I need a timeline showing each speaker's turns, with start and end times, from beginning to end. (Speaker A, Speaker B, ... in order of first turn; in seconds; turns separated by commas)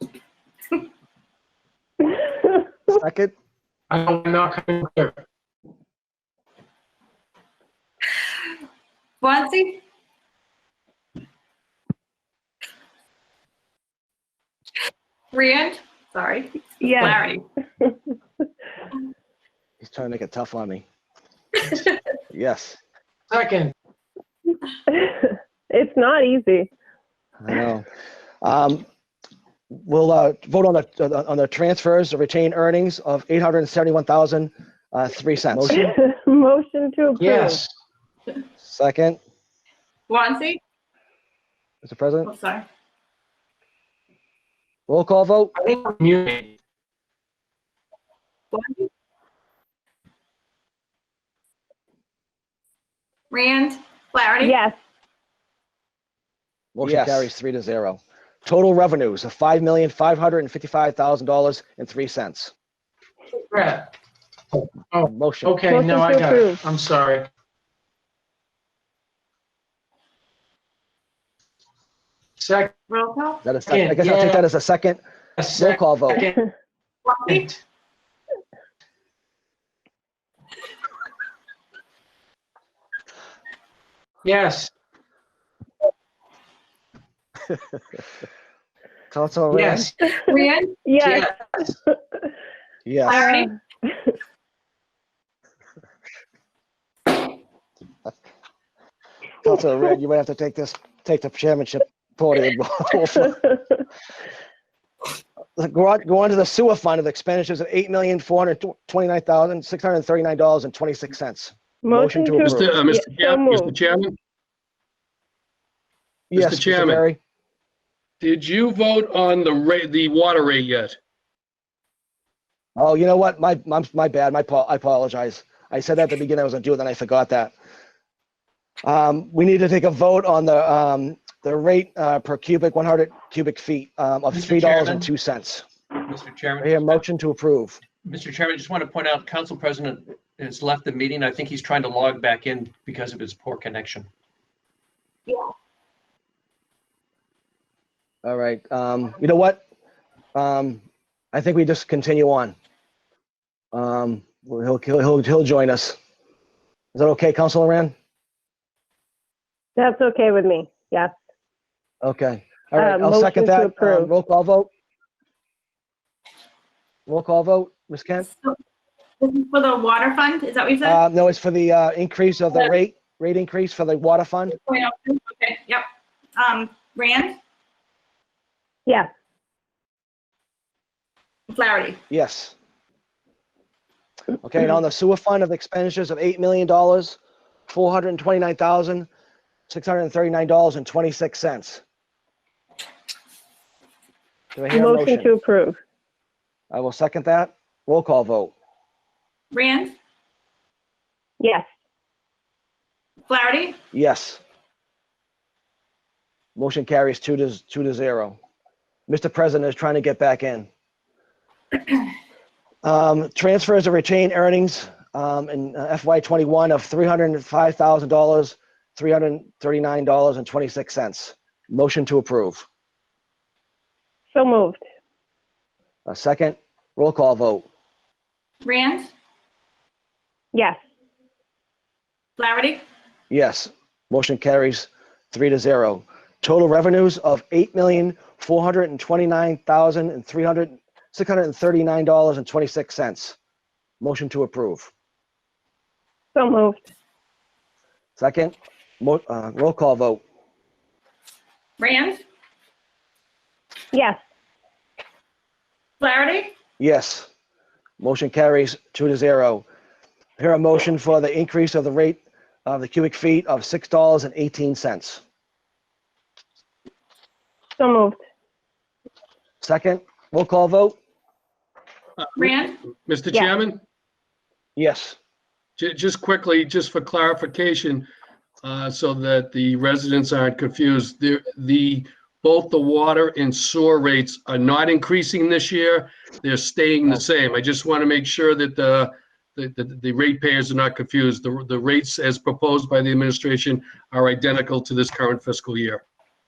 Speaker A: 2.9-3.3, Speaker B: 3.9-5.2, Speaker C: 9.2-9.8, Speaker C: 15.3-17.4, Speaker D: 16.8-17.2, Speaker A: 19.8-20.8, Speaker A: 22.3-22.8, Speaker B: 23.3-23.7, Speaker D: 24.9-26.7, Speaker A: 27.4-27.9, Speaker A: 28.4-28.8, Speaker A: 29.7-35.8, Speaker D: 35.7-37.6, Speaker B: 37.2-37.7, Speaker A: 38.6-39.2, Speaker C: 40.1-40.6, Speaker A: 41.8-42.3, Speaker C: 42.2-42.6, Speaker A: 44.9-45.5, Speaker B: 45.5-46.5, Speaker C: 48.5-48.9, Speaker C: 53.3-54.6, Speaker D: 54.4-54.8, Speaker A: 56.8-62.5, Speaker E: 56.8-57.3, Speaker B: 63.5-63.9, Speaker B: 64.9-67.3, Speaker A: 65.1-65.6, Speaker D: 65.7-66.6, Speaker B: 72.4-72.7, Speaker C: 72.9-73.4, Speaker A: 73.4-75.0, Speaker B: 73.7-74.5, Speaker B: 75.4-76.5, Speaker A: 75.5-76.2, Speaker C: 77.0-77.5, Speaker B: 77.2-77.6, Speaker B: 84.2-84.7, Speaker A: 89.1-89.9, Speaker B: 89.5-89.9, Speaker C: 90.2-90.8, Speaker D: 90.8-91.2, Speaker A: 92.8-93.2, Speaker C: 93.0-93.5, Speaker D: 93.1-94.1, Speaker A: 99.4-103.4, Speaker A: 105.6-112.7, Speaker D: 111.8-113.8, Speaker F: 112.4-114.2, Speaker A: 116.3-117.2, Speaker F: 116.3-117.0, Speaker F: 118.2-121.0, Speaker A: 122.8-127.5, Speaker A: 128.8-135.6, Speaker E: 134.3-135.1, Speaker E: 136.1-137.0, Speaker A: 136.6-137.8, Speaker E: 138.0-144.1, Speaker A: 148.2-149.6, Speaker A: 150.3-150.8, Speaker A: 151.3-152.5, Speaker A: 153.7-156.0, Speaker A: 156.9-157.9, Speaker D: 159.8-161.1, Speaker A: 162.0-164.7, Speaker D: 162.8-164.1, Speaker A: 167.1-168.3, Speaker C: 168.2-168.6, Speaker C: 169.2-171.0, Speaker A: 170.8-174.6, Speaker C: 174.5-175.8, Speaker C: 176.3-177.3, Speaker C: 181.5-182.0, Speaker A: 182.1-182.5, Speaker A: 184.4-187.2, Speaker A: 187.7-189.1, Speaker A: 189.7-191.8, Speaker A: 194.5-195.3, Speaker D: 194.7-195.8, Speaker A: 196.7-198.5, Speaker C: 199.5-199.9, Speaker D: 201.4-201.7, Speaker C: 203.3-203.8, Speaker A: 203.9-204.4, Speaker A: 206.6-208.4, Speaker A: 209.1-210.7, Speaker A: 212.8-222.7, Speaker D: 224.3-224.8, Speaker A: 226.1-227.7, Speaker C: 228.6-229.1, Speaker D: 230.5-230.8, Speaker C: 232.4-232.8, Speaker A: 233.3-243.3, Speaker A: 244.0-244.9, Speaker D: 246.3-246.8, Speaker A: 248.2-250.2, Speaker C: 251.8-252.2, Speaker D: 253.9-254.2, Speaker C: 256.0-256.5, Speaker A: 256.8-257.3, Speaker A: 258.0-259.6, Speaker A: 260.4-265.2, Speaker D: 267.8-268.2, Speaker A: 269.6-270.9, Speaker F: 272.2-273.8, Speaker C: 272.4-272.8, Speaker A: 274.8-275.2, Speaker F: 275.8-278.1, Speaker F: 278.6-296.0